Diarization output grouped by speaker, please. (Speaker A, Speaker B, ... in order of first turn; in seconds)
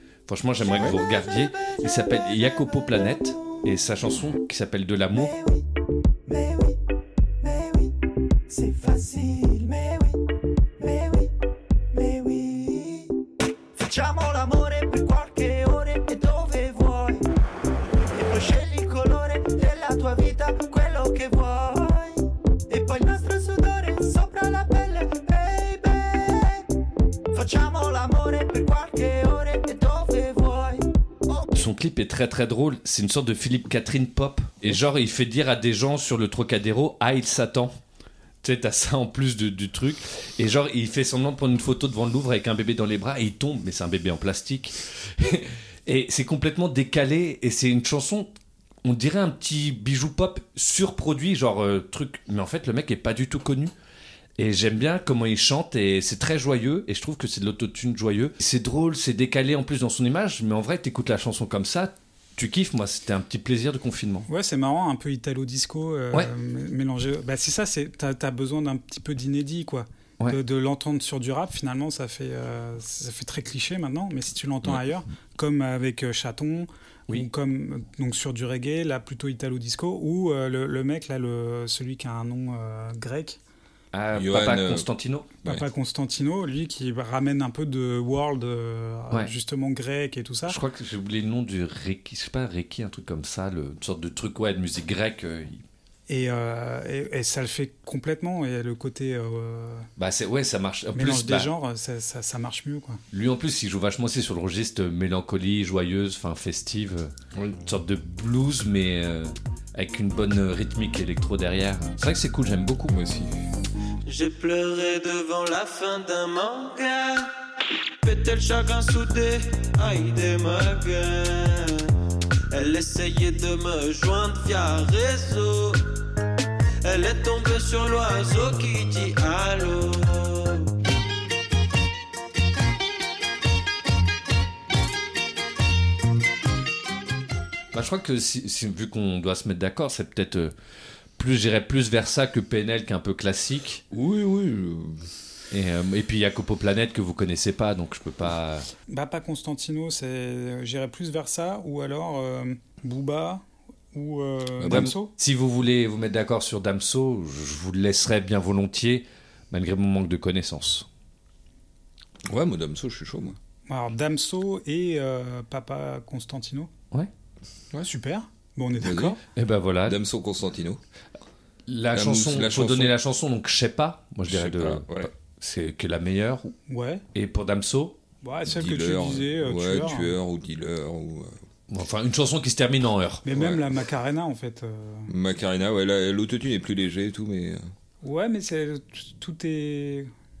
Speaker A: 0.3-5.3, 31.5-37.7, 38.4-48.3, 48.8-53.7, 54.4-64.3, 83.9-85.3, 90.5-95.6, 100.0-101.5, 103.1-107.1, 107.6-112.9, 137.7-140.5, 141.2-143.8, 145.5-148.7, 154.6-160.8, 169.3-170.0, 171.7-176.6, 177.1-178.0, 181.7-183.2
Speaker B: 0.6-3.6, 5.1-5.7, 6.2-6.8, 7.4-8.0, 8.5-10.2, 10.8-11.3, 11.9-13.1, 13.8-17.3, 18.1-26.7, 27.3-31.5
Speaker C: 64.3-83.4, 85.4-90.6, 96.1-99.9, 100.9-103.0, 148.9-155.1, 163.7-166.7, 167.8-169.2, 176.7-177.0, 178.2-180.1, 183.2-185.1, 188.0-190.1
Speaker D: 84.1-84.9, 107.3-107.6, 112.9-113.4, 143.9-145.1, 154.6-154.9, 162.3-163.3, 168.8-169.2, 169.8-170.8, 171.9-172.9, 174.3-175.1, 178.5-181.4, 183.3-183.6, 185.1-187.6
Speaker E: 114.0-117.3, 118.0-121.9, 122.5-125.8, 126.8-130.7